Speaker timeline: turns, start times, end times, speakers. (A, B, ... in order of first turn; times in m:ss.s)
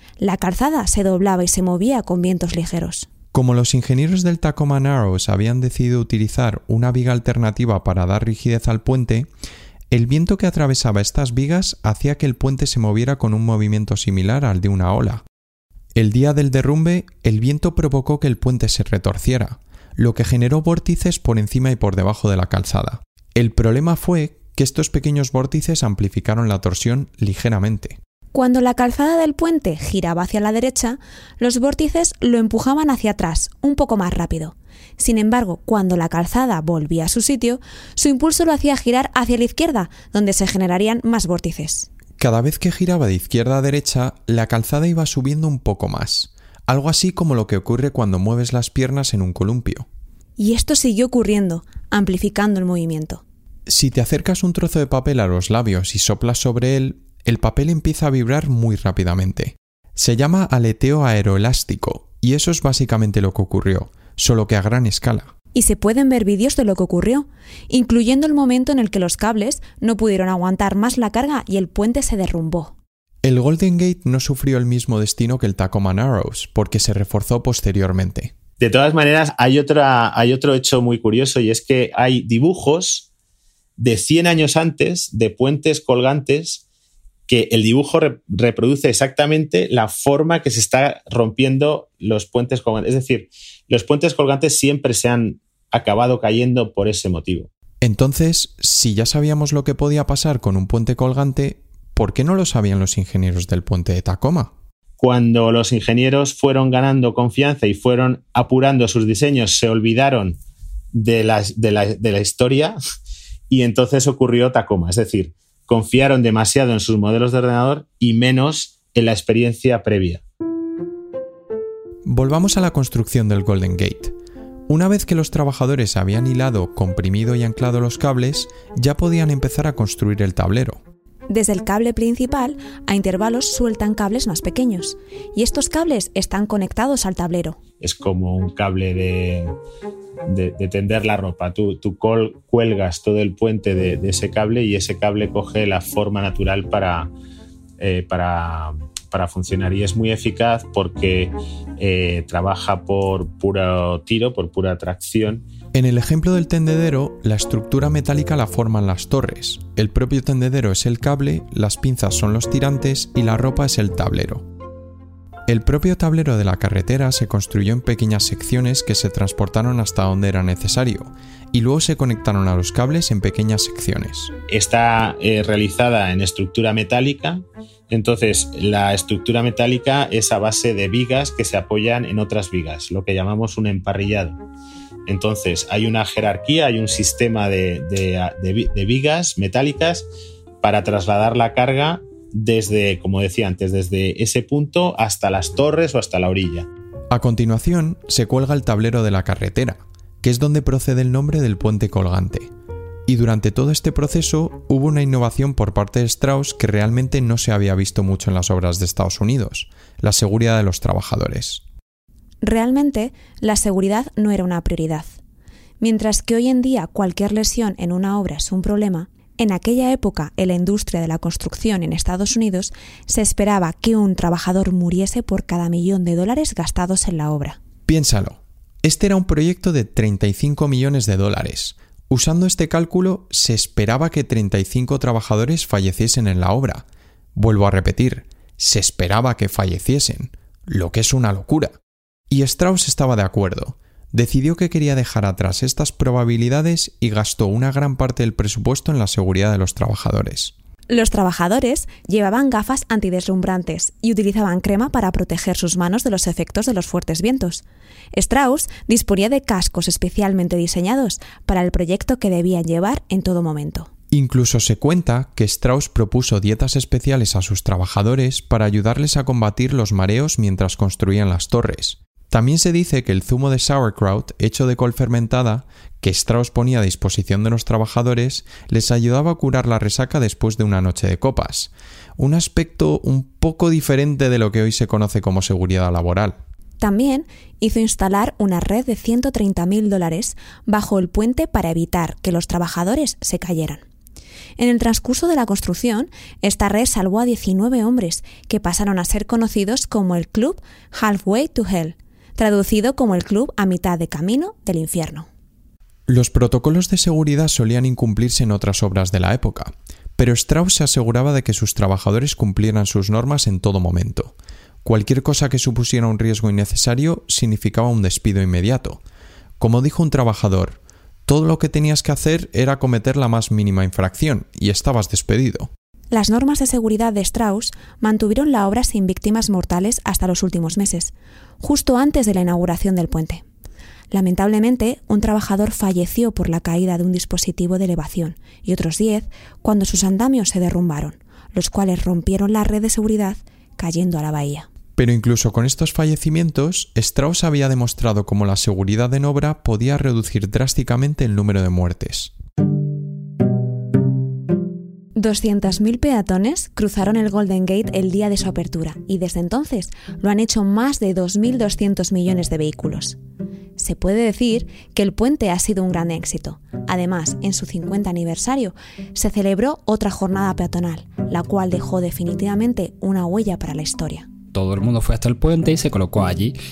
0:00.2-0:03.1 A
0:03.3-0:09.3 B
0:09.9-0:15.2 B
0:15.9-0:28.0 B
0:28.3-0:41.9 A
0:42.2-0:49.9 B
0:50.4-0:53.2 A
0:53.7-1:05.3 B
1:05.5-1:12.7 A
1:13.2-1:18.3 B
1:18.6-1:23.1 C
1:23.8-1:26.6 C
1:27.3-1:37.5 C
1:37.8-1:44.5 B
1:45.0-1:50.4 C
1:50.9-1:52.8 C
1:53.5-2:00.2 C
2:02.0-2:04.1 B
2:04.7-2:10.8 B
2:11.3-2:17.6 A
2:17.8-2:19.5 C
2:20.2-2:27.1 C
2:27.8-2:35.4 C
2:35.7-2:44.4 B
2:45.5-2:54.3 B
2:54.5-3:04.4 C
3:05.1-3:10.1 C
3:10.6-3:16.7 C
3:17.1-3:22.5 B
3:23.1-3:31.6 B
3:32.4-3:35.1 A
3:35.8-3:47.6 A
3:47.9-4:01.8 B
4:02.3-4:10.5 B
4:10.9-4:17.6 A
4:18.1-4:23.9 A
4:24.1-4:46.4 B
4:46.8-4:53.8 A
4:54.6-5:05.3 A
5:06.1-5:19.0 B
5:19.6-5:25.7 B
5:26.1-5:33.4 A
5:34.1-5:44.7 A
5:45.0-5:52.3 B
5:55.1-6:03.2 A
6:03.8-6:14.3 A
6:14.5-6:16.6 D